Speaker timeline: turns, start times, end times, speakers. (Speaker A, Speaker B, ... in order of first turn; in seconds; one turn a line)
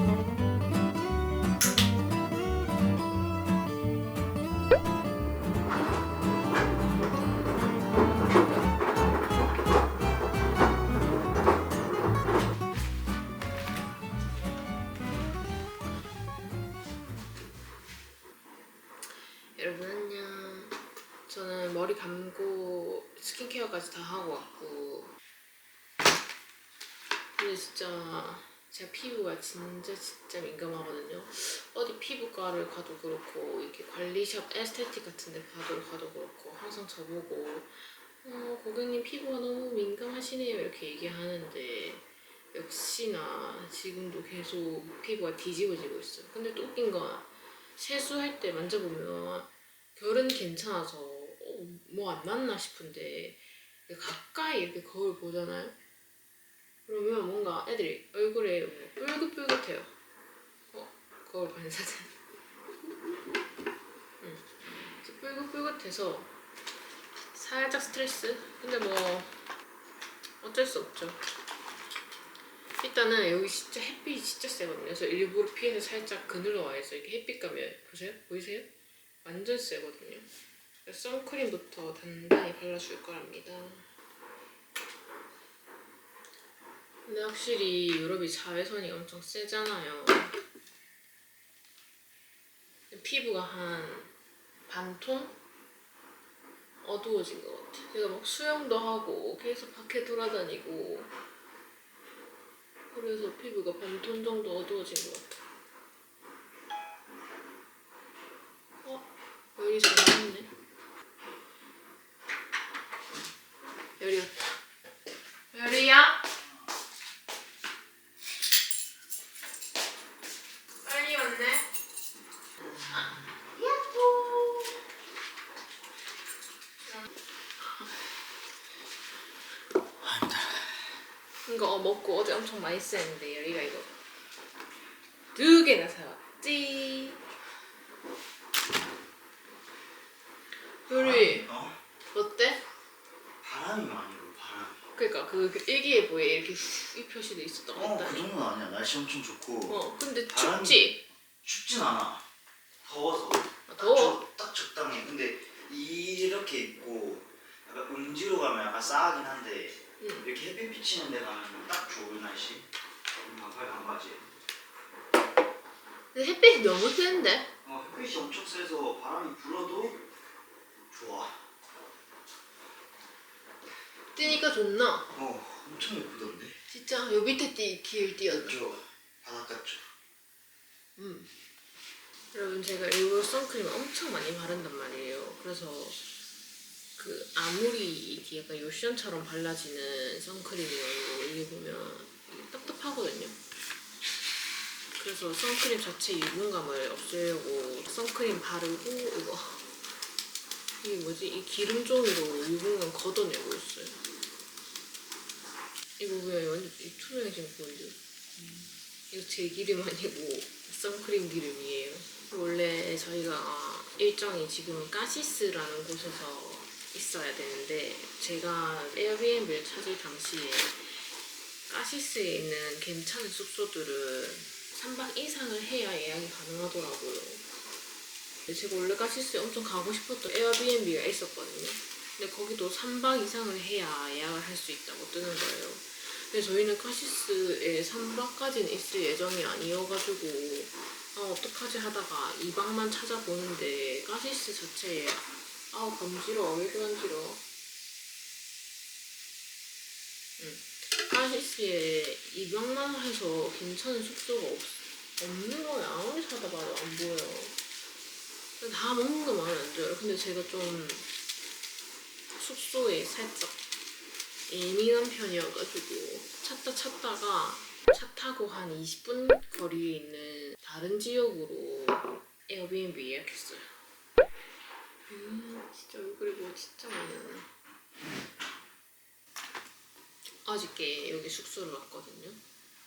Speaker A: 19.6-25.1
Speaker A: 27.4-55.8
Speaker A: 56.9-59.9
Speaker A: 60.7-62.1
Speaker A: 64.2-66.3
Speaker A: 67.3-69.4
Speaker A: 70.4-71.2
Speaker A: 72.8-78.7
Speaker A: 79.2-80.3
Speaker A: 80.8-83.8
Speaker A: 87.0-90.3
Speaker A: 92.9-94.1
Speaker A: 94.7-95.3
Speaker A: 96.8-101.1
Speaker A: 102.9-105.3
Speaker A: 108.8-110.5
Speaker A: 114.0-114.5
Speaker A: 115.5-116.3
Speaker A: 120.8-121.7
Speaker A: 122.9-124.8
Speaker A: 127.6-127.9
Speaker B: 130.0-130.8
Speaker A: 131.4-133.9
Speaker A: 135.3-137.2
Speaker A: 140.9-141.5
Speaker B: 140.9-141.8
Speaker A: 142.1-142.6
Speaker B: 143.4-144.8
Speaker A: 144.9-148.2
Speaker B: 147.7-150.9
Speaker A: 149.7-151.0
Speaker B: 151.4-152.2
Speaker B: 152.8-162.7
Speaker A: 153.7-154.2
Speaker A: 160.0-160.2
Speaker B: 163.2-164.3
Speaker A: 166.1-167.5
Speaker B: 167.6-170.0
Speaker B: 170.9-171.4
Speaker A: 174.1-175.1
Speaker B: 175.1-176.6
Speaker A: 176.7-178.6
Speaker B: 178.3-179.9
Speaker A: 181.0-181.3
Speaker A: 182.3-186.0
Speaker A: 187.0-193.4
Speaker A: 194.9-199.7
Speaker A: 200.8-204.0
Speaker A: 206.0-221.0
Speaker A: 221.7-227.4
Speaker A: 228.5-247.4
Speaker A: 250.4-257.6
Speaker A: 258.6-261.1
Speaker A: 262.4-263.6
Speaker A: 264.5-273.7
Speaker A: 275.1-277.5
Speaker A: 280.4-282.4